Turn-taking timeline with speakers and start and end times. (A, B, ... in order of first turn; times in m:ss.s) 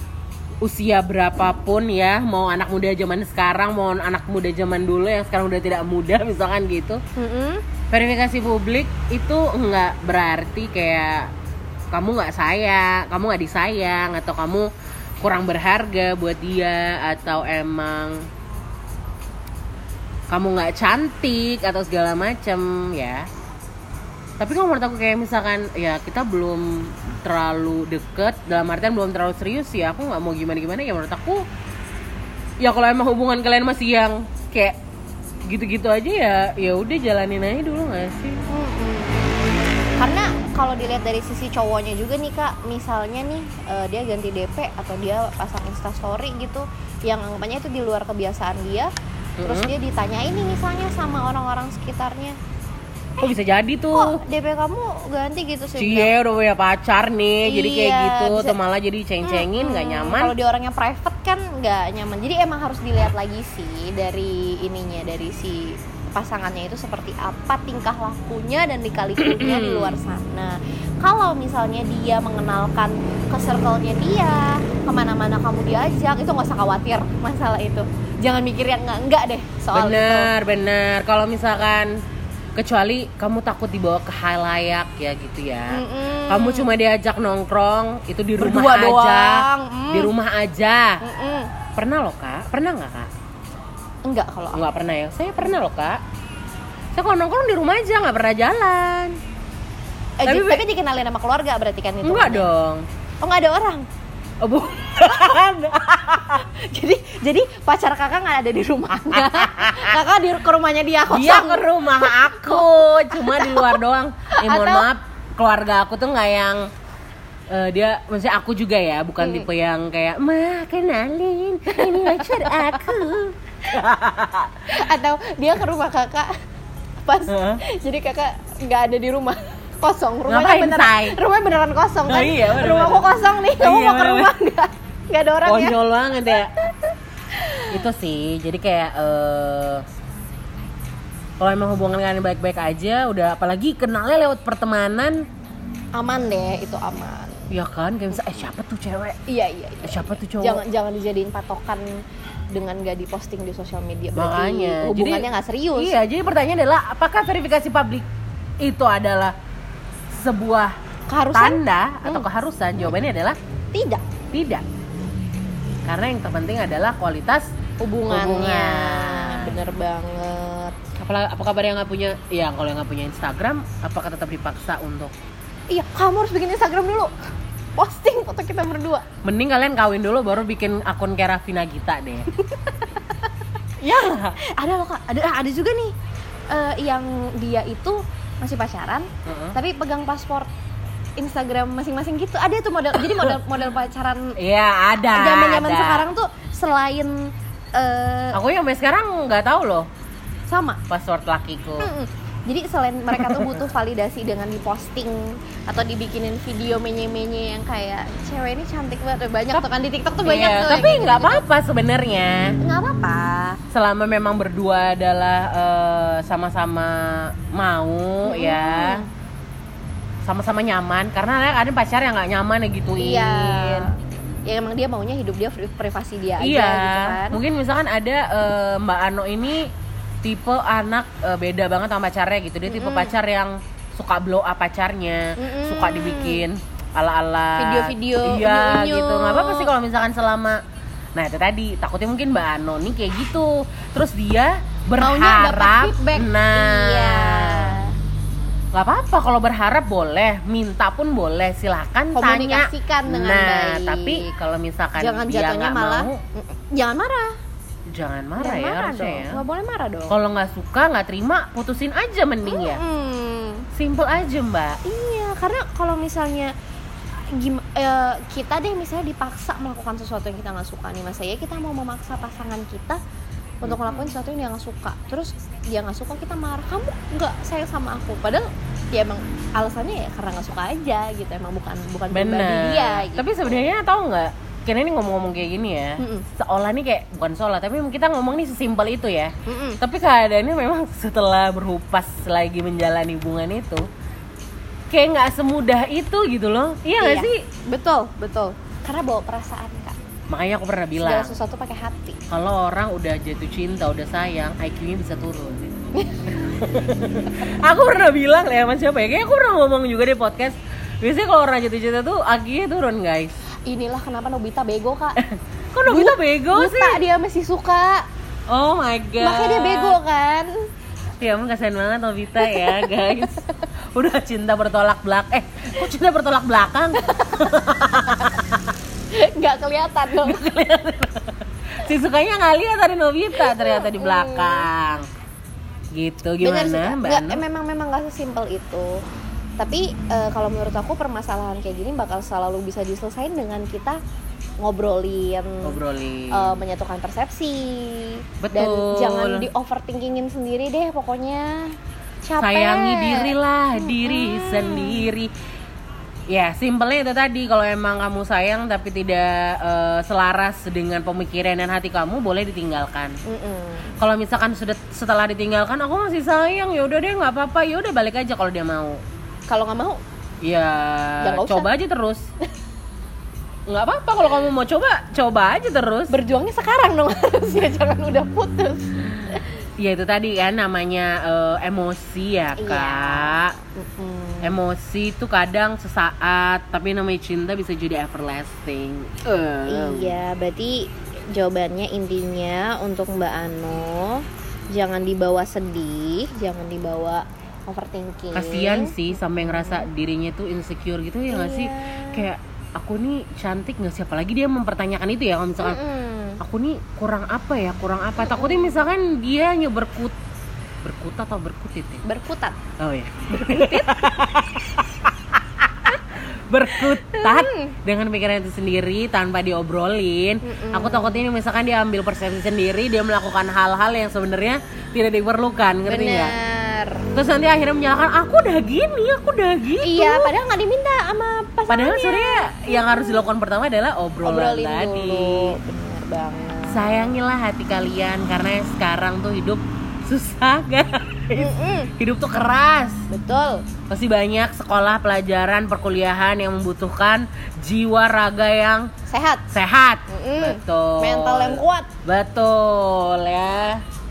0:00.6-0:07.0 A
0:07.2-0:07.6 B
0:07.9-0:11.3 A
0:11.9-0:14.7 A
0:15.2-0:18.2 A
0:20.3-0:23.2 A
0:24.4-0:31.4 A
0:32.6-0:34.8 A
0:35.5-0:38.4 A
0:38.5-0:39.2 B
0:40.0-0:48.9 B
0:49.4-0:49.7 A
0:49.4-0:52.4 B
0:53.2-0:54.2 A
0:53.9-0:56.1 B
0:55.8-1:00.3 A
0:57.4-0:58.6 B
0:59.2-1:20.3 B
1:09.2-1:10.0 A
1:19.7-1:21.9 A
1:22.6-1:31.0 A
1:25.7-1:26.7 B
1:28.4-1:30.1 B
1:31.0-1:31.5 B
1:31.8-1:33.1 A
1:34.0-1:34.6 B
1:34.5-1:36.0 A
1:36.9-1:39.2 A
1:40.2-1:42.5 B
1:40.2-1:40.6 A
1:42.0-1:42.9 A
1:43.2-1:43.9 B
1:44.4-1:46.4 A
1:46.1-1:53.8 B
1:49.1-1:50.0 A
1:51.1-1:56.7 A
1:54.3-1:54.9 B
1:57.5-2:04.8 A
1:59.2-1:59.5 B
2:01.7-2:02.9 B
2:04.7-2:06.3 B
2:07.0-2:15.8 B
2:07.3-2:07.6 A
2:10.3-2:11.2 A
2:12.1-2:14.4 A
2:15.4-2:16.5 A
2:16.3-2:17.8 B
2:17.7-2:19.8 A
2:21.4-2:25.3 A
2:25.9-2:27.5 B
2:27.5-2:29.2 A
2:28.1-2:28.4 B
2:29.3-2:32.0 B
2:29.8-2:30.6 A
2:32.5-2:36.0 B
2:34.2-2:38.1 A
2:38.6-2:39.4 A
2:40.1-2:40.8 A
2:41.1-2:42.3 B
2:41.3-2:43.4 A
2:43.7-2:44.0 B
2:44.3-2:44.6 A
2:45.8-2:47.5 A
2:47.8-2:50.8 B
2:48.1-2:49.6 A
2:51.0-2:55.1 A
2:55.7-2:57.1 B
2:57.8-2:59.0 B
2:59.2-3:02.3 A
3:02.4-3:03.2 B
3:03.8-3:04.4 A
3:04.4-3:05.9 B
3:06.5-3:10.5 B
3:09.3-3:09.6 A
3:11.2-3:14.4 B
3:13.0-3:13.4 A
3:14.4-3:16.1 A
3:15.1-3:18.4 B
3:18.3-3:19.9 A
3:20.5-3:20.8 B
3:20.9-3:21.9 A
3:21.8-3:31.4 B
3:23.1-3:23.6 A
3:30.2-3:32.6 A
3:32.6-3:33.6 B
3:33.7-3:39.0 A
3:38.2-3:39.1 B
3:40.2-3:43.9 A
3:43.0-3:44.0 B
3:44.5-3:47.4 B
3:46.4-3:49.7 A
3:50.2-4:00.6 A
3:52.6-3:53.1 B
3:55.4-3:56.4 B
3:57.6-3:59.7 B
4:01.1-4:07.8 A
4:05.0-4:07.9 B
4:08.7-4:16.2 A
4:12.1-4:14.3 B
4:15.0-4:17.4 B
4:17.9-4:19.4 A
4:18.4-4:20.2 B
4:20.1-4:22.8 A
4:22.4-4:23.7 B
4:23.7-4:24.8 A
4:24.8-4:26.5 B
4:27.3-4:33.0 B
4:33.6-4:43.6 B
4:33.6-4:34.1 A
4:42.1-4:53.9 A
4:46.0-4:46.2 B
4:49.4-4:49.8 B
4:54.9-4:57.4 A
4:57.0-5:00.0 B
5:00.3-5:01.4 A
5:01.0-5:02.2 B
5:02.3-5:05.7 A
5:05.9-5:06.3 B
5:06.4-5:13.4 A
5:13.7-5:15.2 B
5:15.2-5:17.0 A
5:15.9-5:18.1 B
5:18.5-5:20.0 A
5:19.2-5:20.5 B
5:21.2-5:23.4 A
5:22.4-5:23.6 B
5:23.9-5:28.6 A
5:27.0-5:28.4 B
5:29.1-5:30.4 B
5:30.2-5:35.1 A
5:33.3-5:34.6 B
5:35.9-5:37.4 A
5:36.4-5:39.0 B
5:39.6-5:44.0 B
5:44.6-5:45.8 B
5:45.6-5:46.6 A
5:46.3-5:55.1 B
5:48.4-5:49.5 A
5:52.4-5:55.3 A
5:56.3-6:03.2 A
6:03.3-6:04.0 B
6:04.0-6:09.0 A
6:09.5-6:10.0 B
6:10.4-6:12.2 A
6:11.2-6:11.7 B
6:13.7-6:16.1 A
6:16.1-6:19.4 B
6:19.8-6:23.5 A
6:22.6-6:24.6 B
6:24.4-6:30.2 A
6:29.7-6:39.9 B
6:38.3-6:45.8 A
6:41.3-6:42.3 B
6:45.6-6:46.4 B
6:46.4-6:50.1 A
6:48.2-6:48.8 B
6:50.8-6:52.0 A
6:52.0-6:52.6 B
6:52.8-6:56.0 A
6:53.3-6:54.1 B
6:56.5-7:06.3 A
6:56.7-6:57.7 B
7:00.4-7:01.2 B
7:05.9-7:07.0 B
7:07.1-7:10.3 A
7:09.8-7:13.2 B
7:11.7-7:15.6 A
7:14.2-7:17.1 B
7:16.7-7:23.0 A
7:21.4-7:21.9 B
7:23.1-7:23.6 B
7:23.9-7:28.9 A
7:29.1-7:29.4 B
7:29.5-7:33.8 A
7:30.1-7:31.9 B